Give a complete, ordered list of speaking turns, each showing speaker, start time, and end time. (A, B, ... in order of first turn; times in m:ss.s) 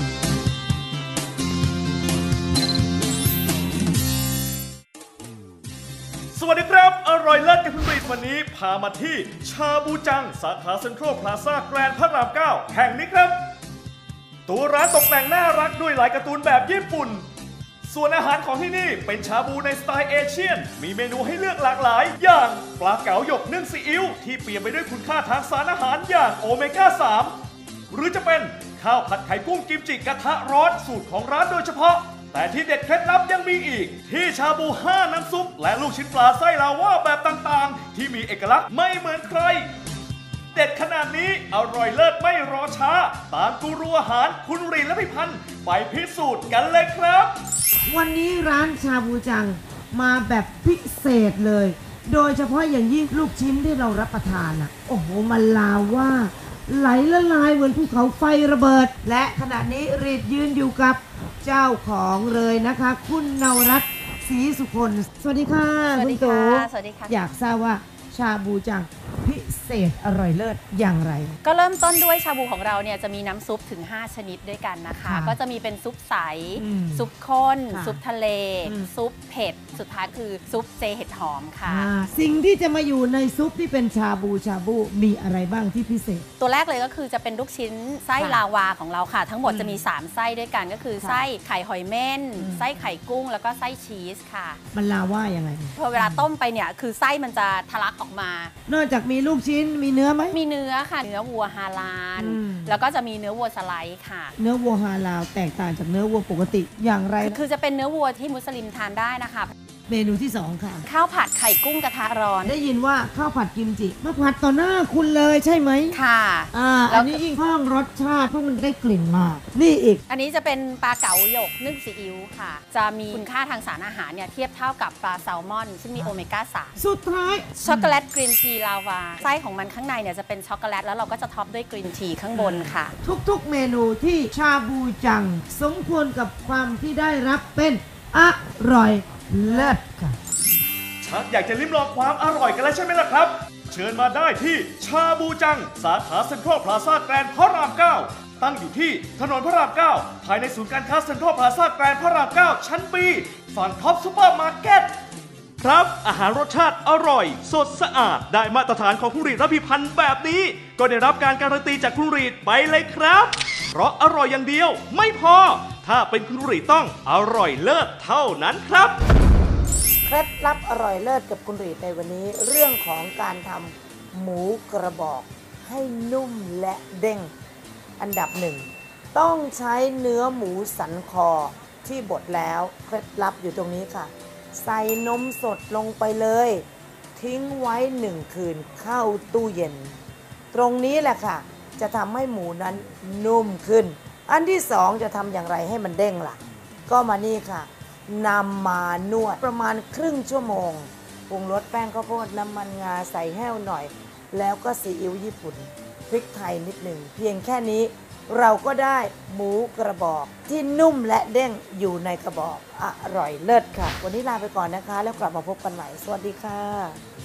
0:06.3-0:13.4 A
0:14.5-0:17.2 A
0:17.8-0:27.3 A
0:27.9-0:39.7 A
0:40.5-0:47.4 A
0:47.9-1:11.4 B
1:05.9-1:07.2 C
1:11.4-1:21.9 C
1:15.0-1:15.4 B
1:16.6-1:17.1 B
1:17.7-1:18.0 B
1:18.6-1:18.9 B
1:21.7-1:26.2 B
1:26.4-1:34.6 C
1:28.2-1:28.4 B
1:29.4-1:29.8 B
1:31.0-1:31.3 B
1:32.4-1:32.8 B
1:34.7-1:36.3 B
1:35.8-1:38.5 C
1:38.7-1:40.4 B
1:40.3-1:44.4 C
1:42.2-1:42.8 B
1:44.4-1:47.4 B
1:47.2-1:49.5 C
1:49.9-1:50.9 B
1:50.8-1:52.6 C
1:52.4-1:56.0 B
1:55.9-1:57.2 C
1:56.5-2:00.0 B
2:00.1-2:06.8 C
2:06.8-2:08.0 B
2:07.6-2:12.9 C
2:12.3-2:20.2 B
2:21.0-2:35.0 A
2:35.6-2:49.0 A
2:50.1-2:57.3 B
2:58.0-3:06.6 B
3:07.2-3:10.0 B
3:10.5-3:37.0 B